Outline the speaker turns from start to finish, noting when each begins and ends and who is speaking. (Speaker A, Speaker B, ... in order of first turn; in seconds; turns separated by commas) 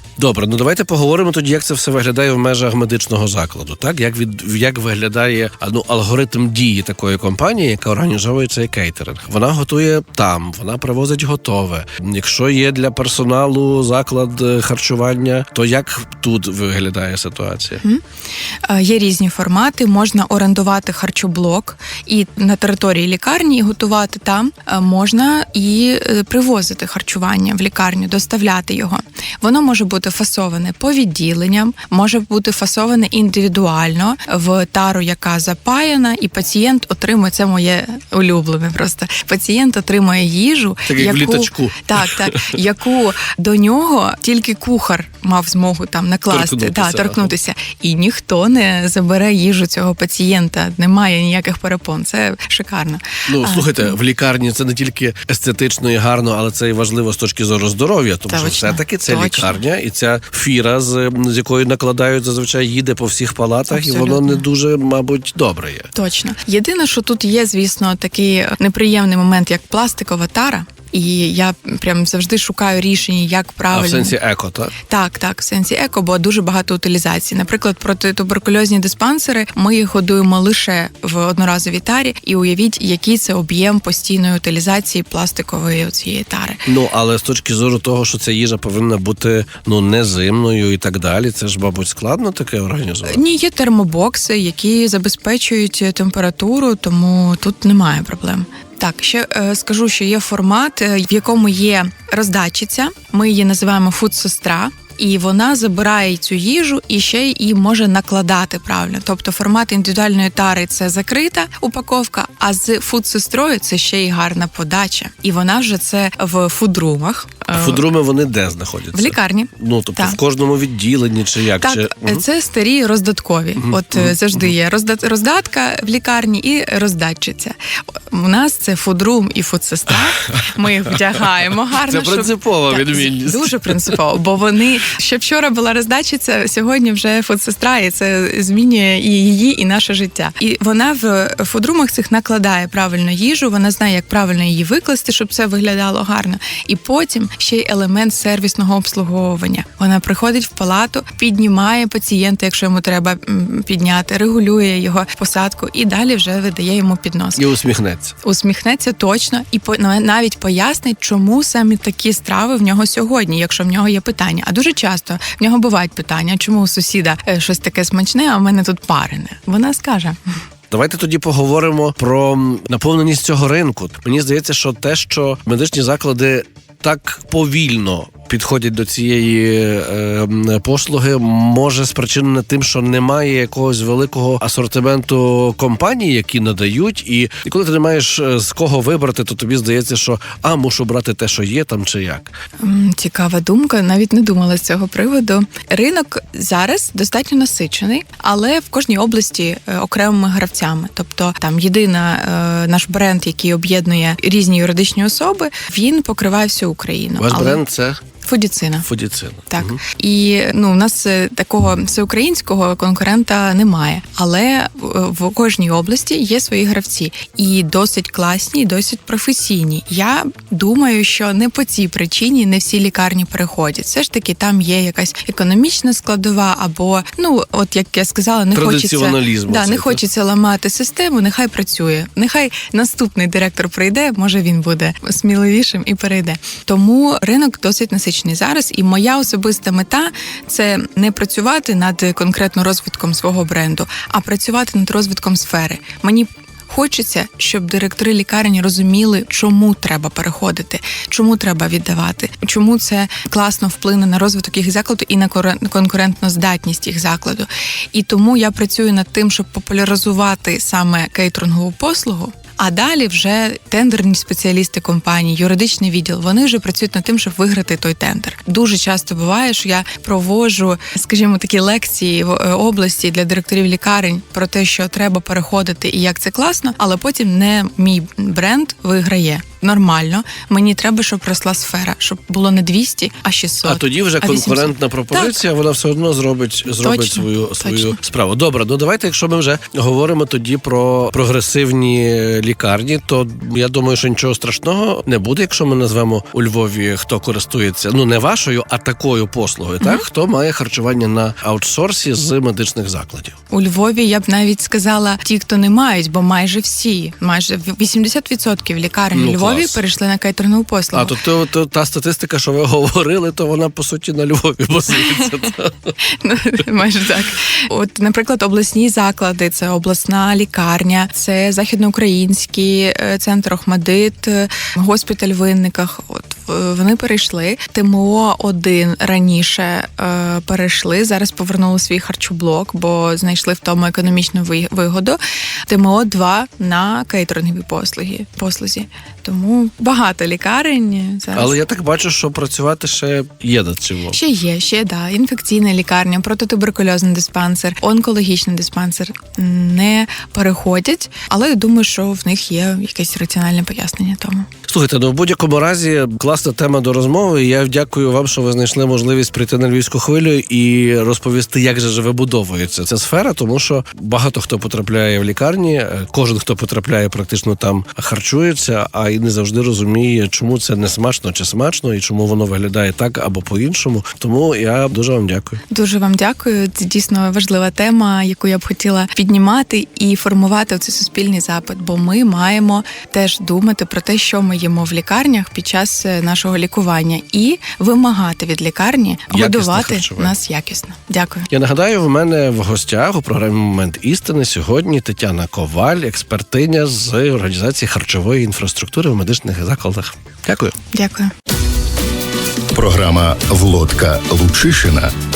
Speaker A: 0.2-17.8, Speaker B: 18.6-53.9, Speaker A: 40.9-42.5, Speaker A: 46.3-47.3, Speaker A: 53.3-65.9, Speaker B: 58.3-59.6, Speaker B: 63.7-64.4, Speaker B: 65.9-74.2, Speaker A: 73.7-74.7, Speaker B: 74.8-86.6, Speaker A: 86.7-93.2, Speaker B: 93.0-117.8, Speaker A: 117.5-122.2, Speaker B: 118.9-120.2, Speaker B: 121.6-127.5, Speaker A: 123.7-124.2, Speaker B: 128.1-157.5, Speaker A: 131.8-133.9, Speaker A: 157.4-158.1, Speaker B: 158.2-170.3, Speaker A: 170.7-192.3, Speaker B: 192.6-207.6, Speaker A: 207.2-208.0, Speaker B: 208.2-208.9, Speaker A: 208.8-209.8, Speaker B: 209.5-285.4, Speaker A: 228.5-230.0, Speaker A: 283.6-303.3, Speaker B: 286.8-288.0, Speaker B: 299.8-300.1, Speaker B: 303.5-311.1, Speaker A: 309.1-309.8, Speaker A: 310.9-315.9, Speaker B: 316.1-341.6, Speaker A: 341.3-344.2, Speaker B: 344.1-354.5, Speaker A: 354.7-375.6, Speaker B: 375.7-391.5, Speaker A: 389.3-390.4, Speaker A: 391.5-400.7, Speaker B: 400.9-401.3, Speaker C: 402.7-405.1